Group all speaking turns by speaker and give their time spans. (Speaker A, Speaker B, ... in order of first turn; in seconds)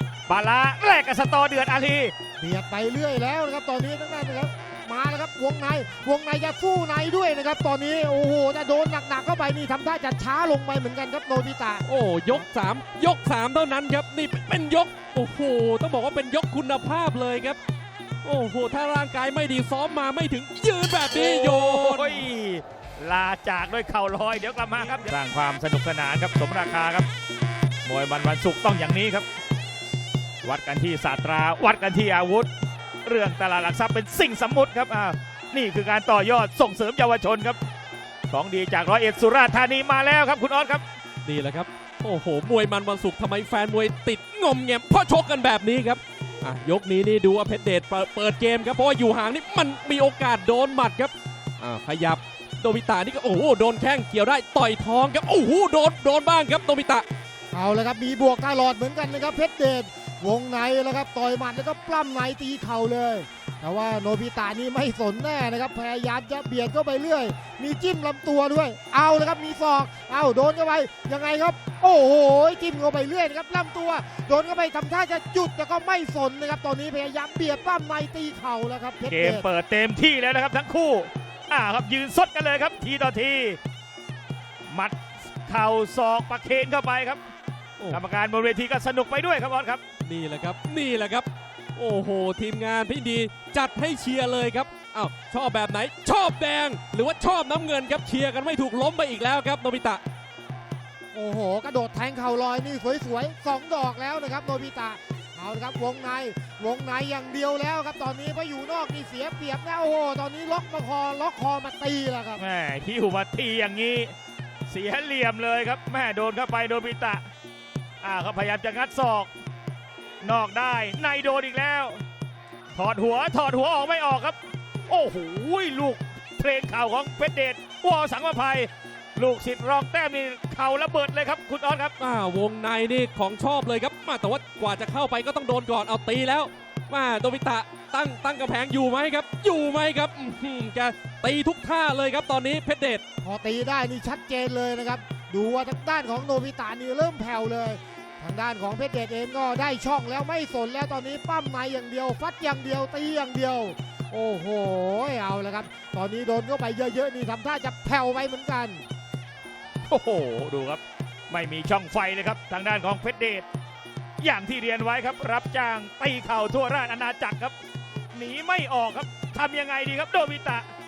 Speaker A: 0.3-2.1, 21.1-27.1, 27.9-29.2, 30.4-32.5, 33.0-37.6, 38.3-40.8, 79.1-83.6, 84.7-87.2, 87.9-89.8, 112.4-114.1, 114.7-117.2, 118.0-119.3, 120.2-122.0, 122.7-124.4, 124.9-131.9, 159.9-163.5, 164.2-167.6, 168.1-170.7
Speaker B: 2.4-12.4, 57.5-79.5, 101.1-112.4, 143.2-158.8
Speaker C: 11.8-17.6, 18.2-22.2, 41.2-57.0, 90.0-100.0, 132.0-143.0